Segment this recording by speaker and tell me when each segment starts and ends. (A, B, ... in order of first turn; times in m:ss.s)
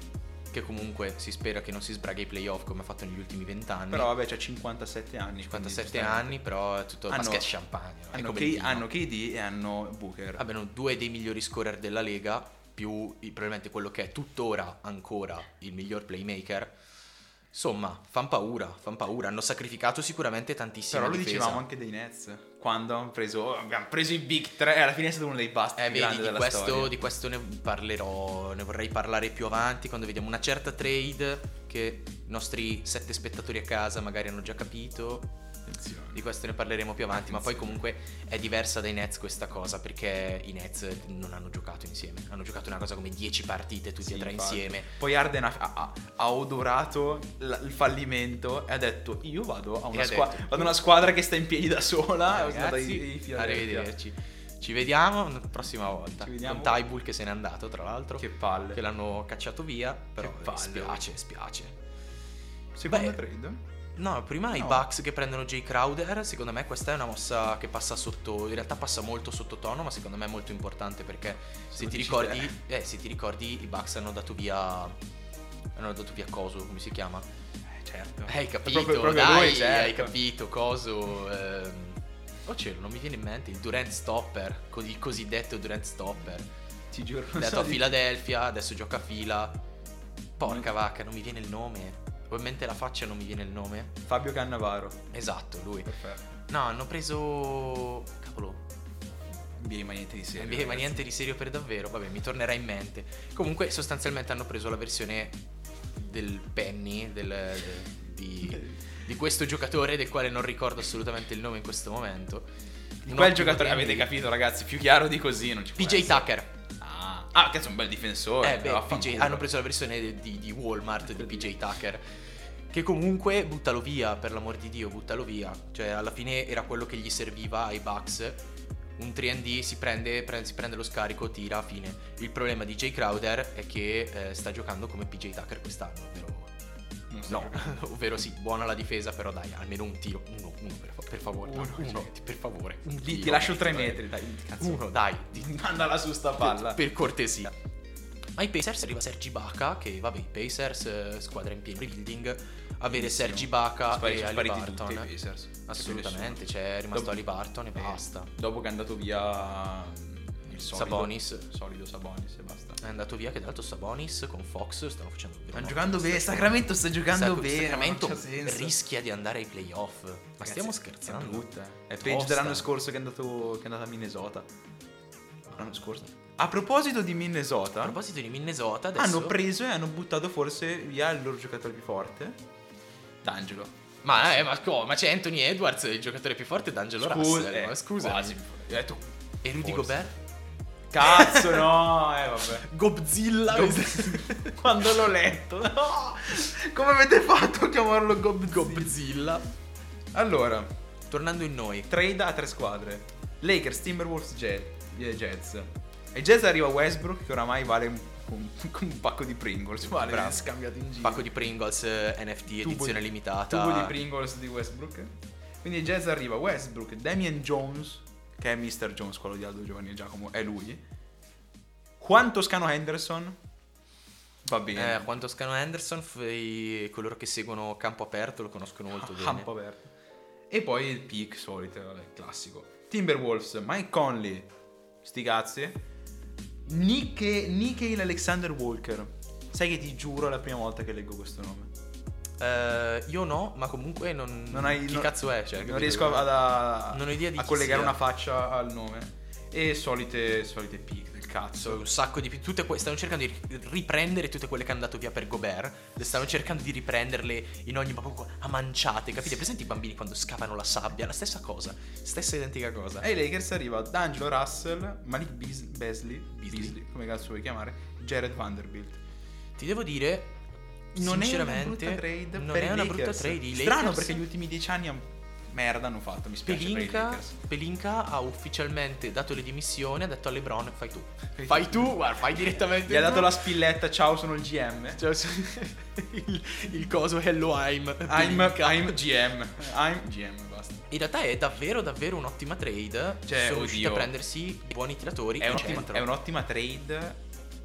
0:00.5-0:04.1 A
0:03.9-0:06.4 B
0:05.4-0:08.9 A
0:07.1-0:07.5 B
0:08.1-0:10.4 B
0:10.4-0:16.7 A
0:17.5-0:21.6 A
0:20.9-0:26.9 B
0:25.8-0:35.3 A
0:35.7-0:36.2 B
0:36.1-0:44.9 A
0:37.1-0:37.8 B
0:44.0-0:53.9 B
0:49.9-0:50.8 A
0:52.3-1:01.8 A
0:56.2-0:56.8 B
0:58.2-0:58.8 B
1:00.2-1:01.1 B
1:02.8-1:03.6 B
1:02.9-1:03.2 A
1:04.0-1:15.0 A
1:04.5-1:04.9 B
1:11.7-1:12.5 B
1:15.8-1:17.3 A
1:17.8-1:20.1 B
1:18.3-1:26.5 A
1:26.9-1:27.9 B
1:27.3-1:29.6 A
1:30.4-1:33.9 A
1:34.1-1:35.0 B
1:35.1-1:36.0 A
1:35.9-1:36.2 B
1:36.5-1:38.6 A
1:39.6-1:41.0 B
1:40.4-1:45.4 A
1:46.0-1:52.5 A
1:53.0-1:54.1 A
1:53.0-1:59.5 B
1:55.8-1:56.5 A
1:58.4-2:02.0 A
2:01.1-2:01.5 B
2:02.7-2:08.4 A
2:09.0-2:16.5 A
2:17.1-2:17.8 B
2:17.3-2:24.0 A
2:21.4-2:22.1 B
2:22.9-2:26.8 B
2:24.6-2:25.5 A
2:26.4-2:27.5 A
2:28.4-2:35.1 A
2:32.9-2:42.8 B
2:35.6-2:38.3 A
2:40.5-2:41.5 A
2:42.8-2:51.4 A
2:45.5-2:48.8 B
2:50.4-2:54.5 B
2:52.0-2:52.7 A
2:55.5-2:58.0 B
2:57.8-2:59.4 A
2:59.0-3:02.4 B
3:03.2-3:03.8 B
3:04.0-3:08.4 A
3:07.0-3:10.0 B
3:09.4-3:10.2 A
3:10.9-3:12.7 B
3:11.0-3:11.7 A
3:12.6-3:14.9 A
3:13.5-3:19.0 B
3:18.5-3:19.5 A
3:20.1-3:20.7 B
3:21.1-3:21.9 A
3:21.9-3:31.3 B
3:29.8-3:34.0 A
3:32.5-3:40.8 B
3:42.0-3:43.4 B
3:44.4-3:45.1 B
3:44.8-3:49.5 A
3:48.9-3:49.8 B
3:50.5-3:54.5 B
3:55.0-3:55.8 B
3:56.6-4:01.7 B
4:02.4-4:08.0 A
4:04.5-4:11.9 B
4:11.6-4:23.1 A
4:23.0-4:29.0 B
4:26.4-4:26.8 A
4:29.6-4:30.4 A
4:30.9-4:37.4 B
4:31.0-4:34.2 A
4:36.4-4:43.4 A
4:41.4-4:42.0 B
4:42.7-4:45.0 B
4:45.0-4:49.0 A
4:48.1-4:50.9 B
4:50.9-4:56.1 A
4:53.2-4:54.1 B
4:55.4-4:57.2 B